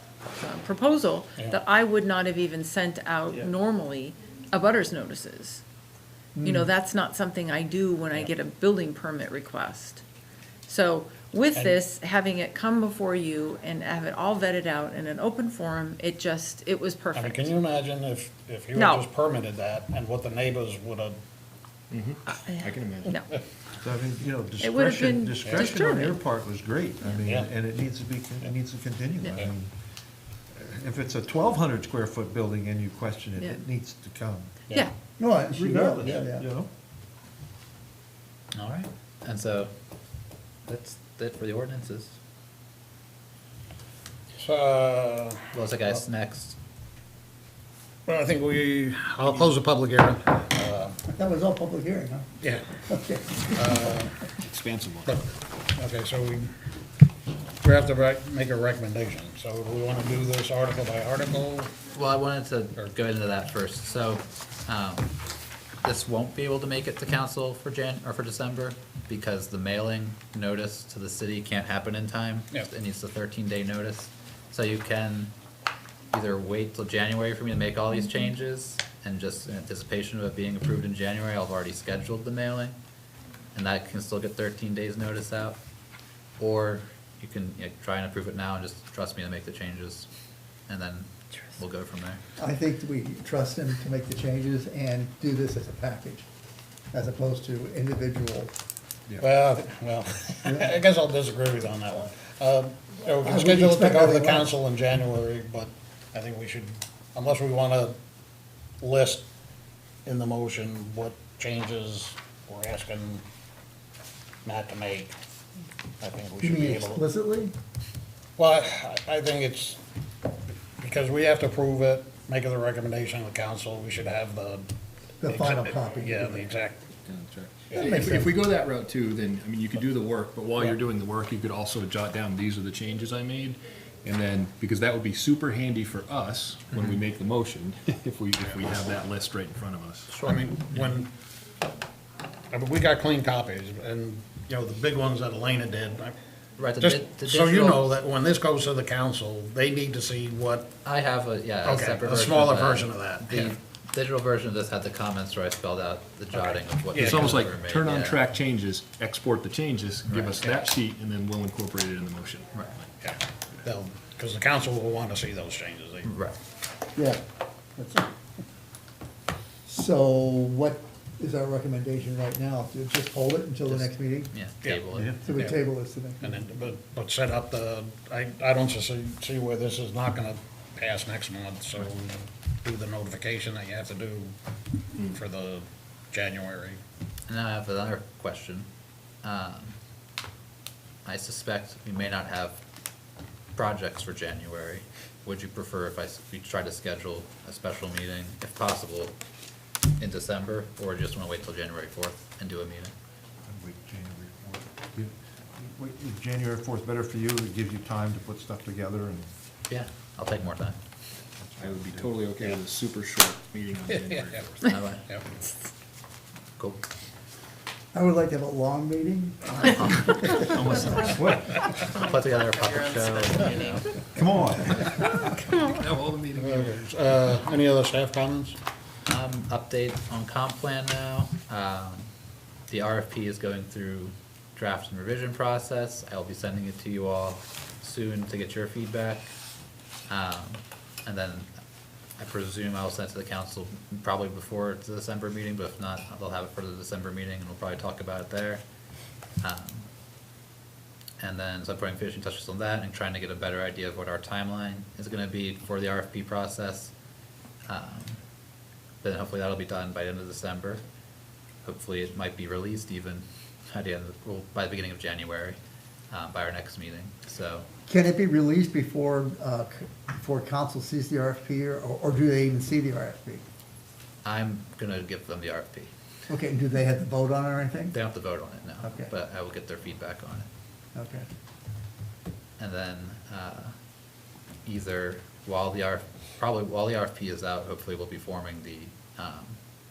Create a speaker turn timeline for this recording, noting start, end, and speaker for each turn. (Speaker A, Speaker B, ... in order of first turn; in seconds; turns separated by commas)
Speaker A: 0.3-5.6, Speaker B: 6.3-6.7, Speaker A: 6.4-10.0, Speaker A: 10.7-17.5, Speaker C: 17.1-21.1, Speaker A: 18.7-19.1, Speaker D: 21.9-23.1, Speaker A: 22.3-23.3, Speaker E: 23.8-29.7, Speaker A: 24.6-26.2, Speaker A: 29.2-29.5, Speaker E: 30.5-34.6, Speaker B: 35.2-36.5, Speaker E: 35.5-36.7, Speaker F: 38.5-39.7, Speaker F: 40.6-42.2, Speaker C: 44.4-45.3, Speaker F: 45.5-46.6, Speaker C: 48.1-51.0, Speaker B: 51.1-53.9, Speaker C: 53.5-54.1, Speaker D: 54.5-55.2, Speaker C: 55.8-56.5, Speaker C: 57.6-61.7, Speaker F: 61.9-65.1, Speaker F: 65.8-75.3, Speaker F: 76.1-82.7, Speaker F: 83.5-85.6, Speaker F: 86.4-90.1, Speaker F: 90.7-92.2, Speaker B: 92.4-96.2, Speaker B: 96.9-98.5, Speaker C: 99.2-108.0, Speaker B: 103.2-104.6, Speaker C: 108.8-109.2, Speaker C: 110.0-113.2, Speaker C: 114.4-115.1, Speaker C: 116.0-117.0, Speaker B: 116.4-117.5, Speaker C: 118.4-119.8, Speaker C: 120.8-124.6, Speaker B: 125.2-126.5, Speaker C: 125.3-126.8, Speaker D: 127.0-140.2, Speaker B: 127.7-128.5, Speaker C: 140.1-141.0, Speaker C: 142.5-146.1, Speaker F: 146.6-147.8, Speaker C: 146.8-150.7, Speaker F: 150.8-158.2, Speaker C: 151.6-153.5, Speaker C: 156.4-157.1, Speaker D: 156.9-162.9, Speaker F: 160.0-160.4, Speaker C: 163.1-166.1, Speaker F: 166.0-166.3, Speaker B: 166.9-167.2, Speaker B: 167.8-168.1, Speaker B: 169.7-174.4, Speaker F: 173.7-175.2, Speaker B: 175.2-176.6, Speaker C: 175.3-175.6, Speaker C: 176.2-184.3, Speaker C: 185.2-186.8, Speaker F: 187.3-188.7, Speaker F: 189.2-189.8, Speaker F: 191.0-192.6, Speaker F: 193.6-199.2, Speaker F: 200.0-202.9, Speaker E: 203.4-209.3, Speaker F: 209.7-210.8, Speaker E: 211.4-212.2, Speaker D: 211.6-214.8, Speaker C: 213.9-214.4, Speaker F: 214.6-215.1, Speaker B: 217.9-220.8, Speaker D: 220.4-221.4, Speaker E: 221.0-221.6, Speaker F: 221.9-223.9, Speaker D: 223.5-223.7, Speaker E: 224.1-224.9, Speaker D: 224.7-226.8, Speaker C: 226.4-228.6, Speaker F: 229.1-232.1, Speaker F: 232.7-239.3, Speaker F: 240.1-241.5, Speaker F: 242.2-248.6, Speaker F: 249.4-249.9, Speaker F: 251.2-256.9, Speaker F: 257.7-258.2, Speaker F: 259.0-260.8, Speaker F: 261.6-265.6, Speaker F: 266.1-267.6, Speaker B: 267.9-273.4, Speaker F: 274.2-275.9, Speaker B: 276.3-278.0, Speaker F: 277.9-280.5, Speaker B: 278.8-279.1, Speaker B: 280.9-281.3, Speaker F: 282.6-283.7, Speaker F: 284.6-289.6